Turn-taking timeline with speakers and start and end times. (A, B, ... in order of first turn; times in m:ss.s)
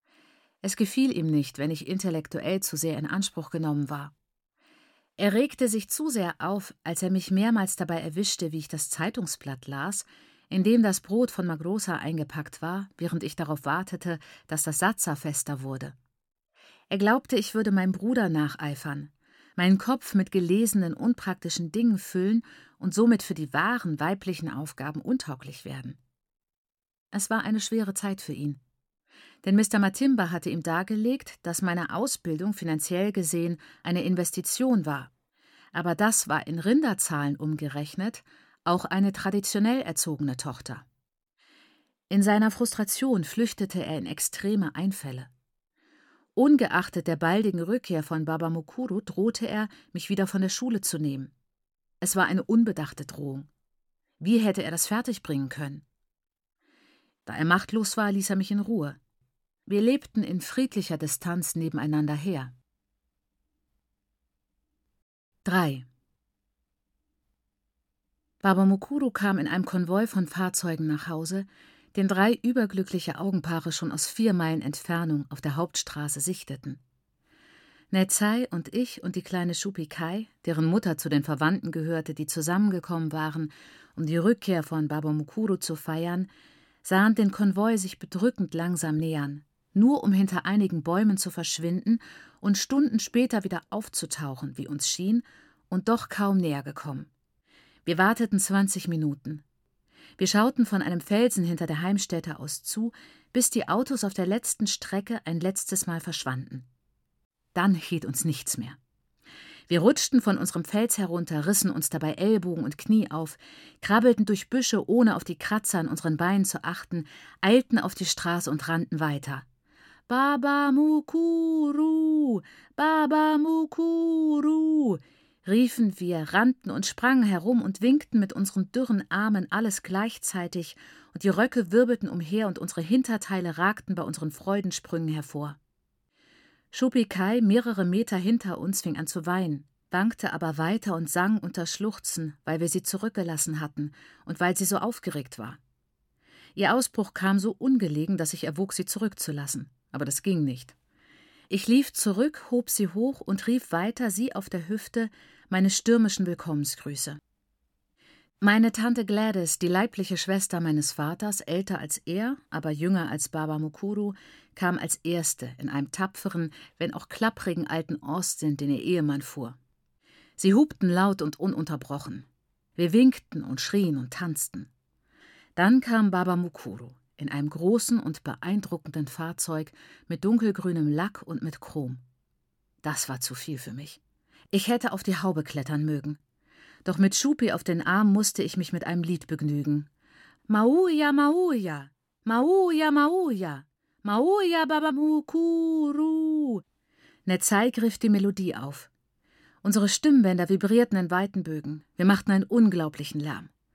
0:00.6-0:04.1 A
0:05.2-0:15.9 A
0:16.9-0:26.0 A
0:27.1-0:28.6 A
0:29.4-0:35.1 A
0:35.7-0:40.8 A
0:42.1-0:45.3 A
0:46.4-0:51.3 A
0:52.0-0:53.5 A
0:54.2-0:55.8 A
0:57.2-0:59.0 A
0:59.7-1:02.5 A
1:05.4-1:05.9 A
1:08.4-1:16.8 A
1:17.9-1:26.3 A
1:26.8-1:37.1 A
1:37.8-1:39.4 A
1:40.2-1:46.7 A
1:47.5-1:48.8 A
1:49.7-1:59.4 A
2:00.1-2:15.6 A
2:16.7-2:25.6 A
2:26.6-2:30.8 A
2:31.5-2:37.2 A
2:38.4-2:49.6 A
2:50.4-2:52.2 A
2:52.8-2:54.7 A
2:55.6-3:02.0 A
3:02.8-3:04.0 A
3:04.5-3:06.2 A
3:06.8-3:09.9 A
3:10.5-3:16.6 A
3:17.2-3:18.9 A
3:19.6-3:23.5 A